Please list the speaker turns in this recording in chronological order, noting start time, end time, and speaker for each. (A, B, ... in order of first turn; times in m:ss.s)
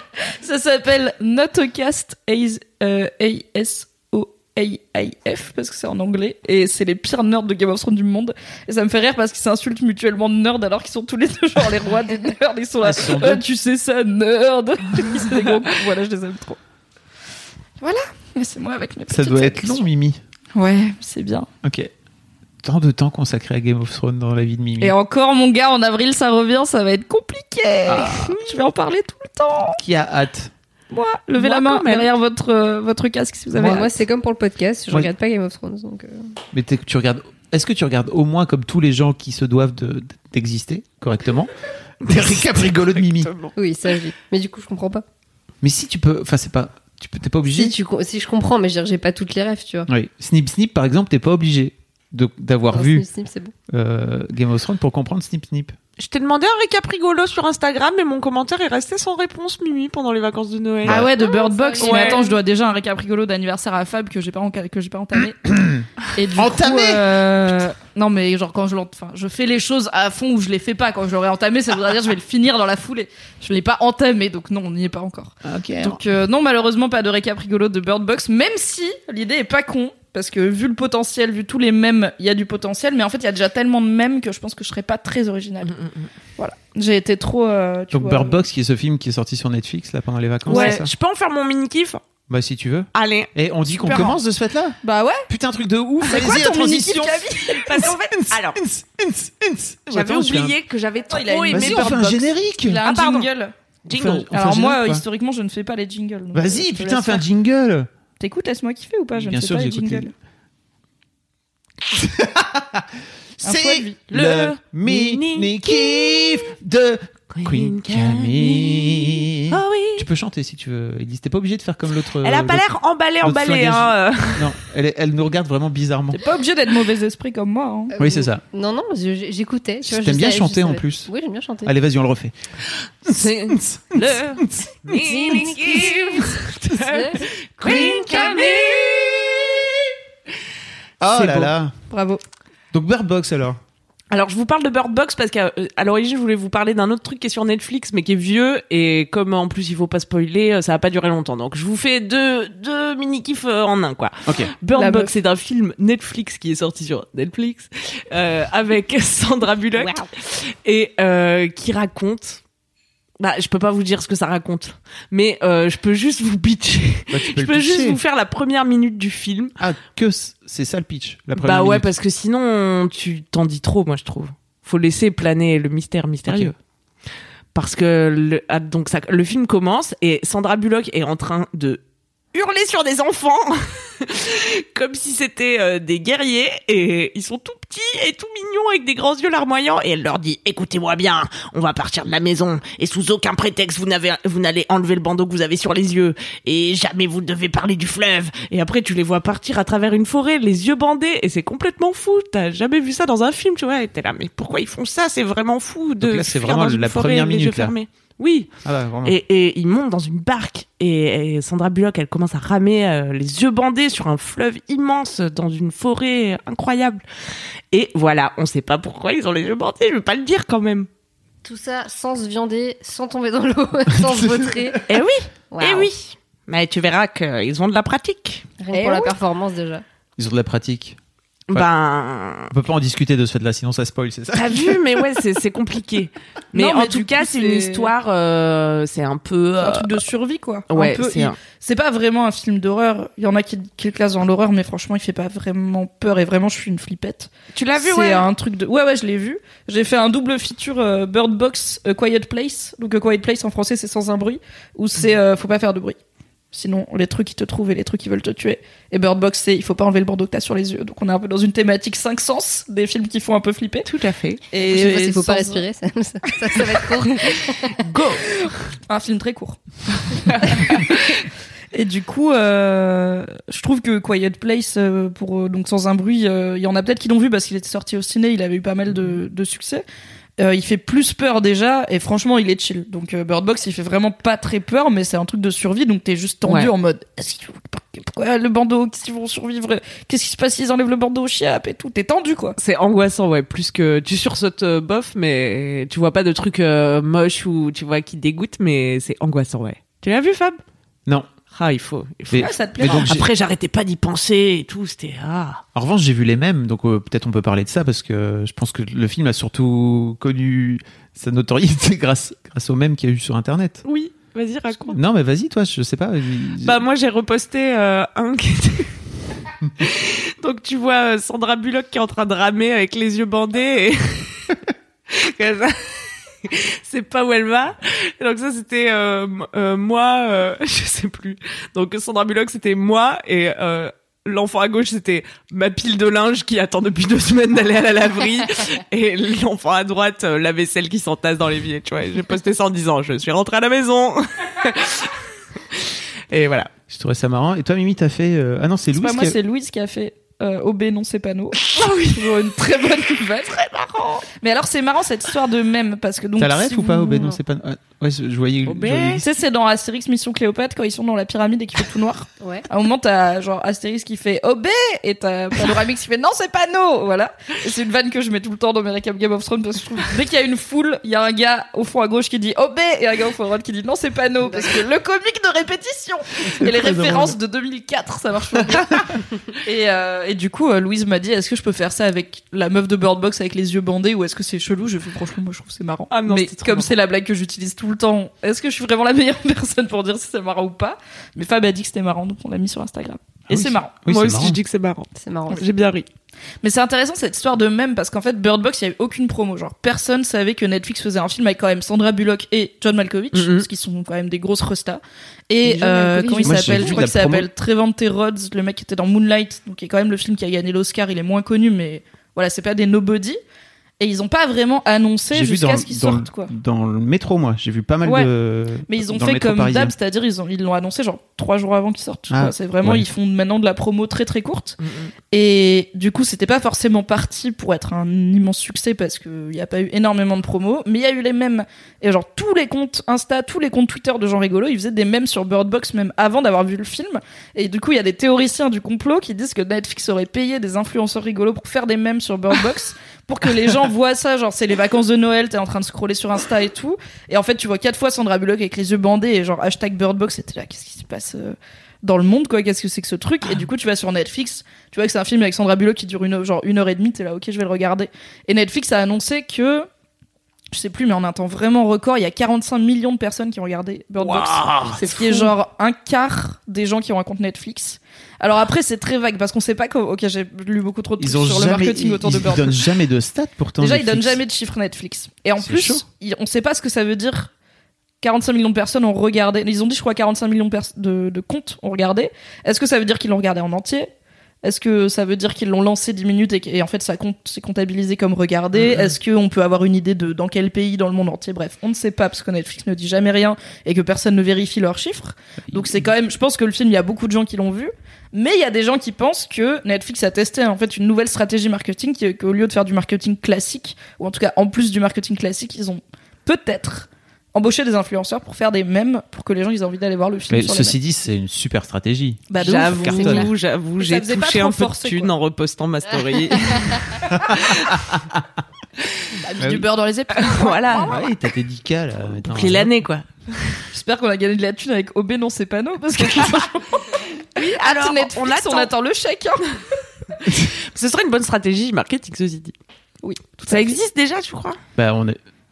0:00.4-0:16.6 A
0:12.8-0:13.4 B
0:17.8-0:19.8 A
0:19.1-0:20.2 B
0:20.5-0:21.5 A
0:21.6-0:21.9 B
0:22.6-0:25.0 B
0:24.8-0:29.8 A
0:27.9-0:28.4 B
0:29.8-0:30.5 B
0:30.9-0:33.9 A
0:31.4-0:32.1 C
0:33.5-0:33.9 B
0:33.6-0:36.3 D
0:36.5-0:41.5 B
0:42.0-0:43.3 B
0:42.0-0:42.4 C
0:43.0-0:43.5 C
0:43.6-0:45.0 D
0:45.6-0:47.8 B
0:47.5-0:49.9 D
0:49.9-0:53.0 B
0:52.7-0:53.5 D
0:53.7-0:55.8 B
0:56.0-1:01.3 C
1:00.8-1:05.6 A
1:01.2-1:02.3 D
1:01.8-1:02.3 C
1:05.4-1:05.8 B
1:06.1-1:25.8 A
1:06.3-1:07.2 B
1:15.4-1:16.0 B
1:25.6-1:26.1 C
1:26.4-1:28.4 A
1:27.9-1:30.9 B
1:30.4-1:32.0 C
1:30.5-1:30.8 A
1:32.3-1:40.5 B
1:32.9-1:34.2 C
1:34.8-1:35.2 A
1:36.0-1:37.8 A
1:37.5-1:38.6 C
1:39.9-1:42.3 C
1:41.1-1:43.5 A
1:41.5-1:42.9 B
1:42.8-1:43.3 C
1:43.8-1:44.3 C
1:43.9-1:45.0 B
1:44.3-1:47.2 A
1:46.3-1:47.9 B
1:48.2-1:50.1 A
1:49.2-1:50.1 B
1:51.8-2:02.7 B
1:53.4-1:54.0 A
1:54.1-1:56.4 C
1:57.3-2:00.1 C
2:02.2-2:04.5 C
2:03.2-2:06.2 B
2:06.1-2:07.9 A
2:07.9-2:11.7 D
2:08.0-2:08.4 B
2:09.8-2:11.1 B
2:11.6-2:12.3 B
2:13.0-2:19.2 C
2:13.0-2:15.5 B
2:15.0-2:18.2 D
2:17.6-2:19.6 B
2:21.0-2:21.8 B
2:21.2-2:22.2 A
2:22.7-2:23.6 B
2:24.1-2:42.4 C
2:34.2-2:34.5 B
2:34.7-2:35.1 A
2:43.2-2:49.5 C
2:47.1-2:48.0 B
2:49.6-2:51.9 B
2:51.3-2:56.5 C
2:56.3-2:56.5 B
2:57.5-3:01.8 C
3:02.3-3:28.5 C
3:26.0-3:27.7 B
3:28.6-3:29.2 B
3:29.0-3:37.0 C
3:37.7-3:40.9 C
3:41.4-3:44.8 D
3:44.0-3:44.8 B
3:44.9-3:48.5 C
3:45.5-3:45.9 D
3:48.6-3:49.8 D
3:48.7-3:49.2 A
3:50.2-3:51.0 B
3:51.5-3:52.5 C
3:52.5-3:55.0 B
3:54.3-4:00.0 C
3:56.5-3:57.9 A
3:59.6-4:16.0 A
4:00.7-4:01.4 C
4:07.5-4:08.3 C
4:16.5-4:23.9 A
4:23.8-4:24.4 C
4:24.5-4:25.6 A
4:24.7-4:27.8 D
4:26.4-4:27.3 A
4:27.8-4:28.3 C
4:28.4-4:29.6 A
4:30.1-4:31.1 A
4:30.3-4:31.1 C
4:31.7-4:39.8 A
4:40.4-4:52.6 A
4:46.4-4:46.7 C
4:52.6-5:00.6 C
5:01.5-5:05.6 C
5:02.3-5:03.3 B
5:02.3-5:03.1 A
5:05.7-5:13.8 B
5:13.8-5:15.0 C
5:14.9-5:16.8 B
5:16.6-5:18.9 C
5:19.8-5:24.6 C
5:25.1-5:46.7 C
5:46.9-5:49.4 B
5:49.0-5:57.4 A
5:51.6-5:52.4 C
5:56.4-5:59.2 B
5:58.6-5:59.2 C
5:59.2-6:33.9 A
6:02.4-6:02.6 D
6:16.4-6:17.4 B
6:26.1-6:26.9 C
6:33.5-6:34.6 B
6:34.1-6:36.0 C
6:35.1-6:35.6 D
6:36.6-6:53.4 A
6:43.3-6:43.7 C
6:45.6-6:47.0 C
6:46.4-6:47.5 B
6:54.0-6:56.5 A
6:55.3-6:59.9 B
6:58.0-6:58.3 A
6:58.9-7:04.8 A
7:02.3-7:03.1 B
7:04.8-7:05.1 C
7:05.3-7:39.9 A
7:40.7-7:52.8 A
7:44.2-7:45.5 C
7:51.2-7:54.4 B
7:53.8-7:57.5 A
7:55.6-7:56.0 B
7:58.2-8:04.1 A
8:04.6-8:30.9 A
8:15.7-8:16.0 B
8:30.5-8:33.5 B
8:32.5-8:33.4 A
8:32.6-8:38.0 C
8:33.1-8:33.4 D
8:34.0-8:35.3 A
8:37.3-8:38.4 B
8:39.3-8:41.3 A
8:39.6-8:39.9 B
8:40.3-8:41.2 C
8:41.0-8:42.9 B
8:42.4-8:43.8 C
8:43.9-8:49.6 A
8:47.6-8:48.9 C
8:50.4-8:52.7 C
8:53.2-8:54.0 A
8:53.7-8:54.8 C
8:55.0-8:55.4 B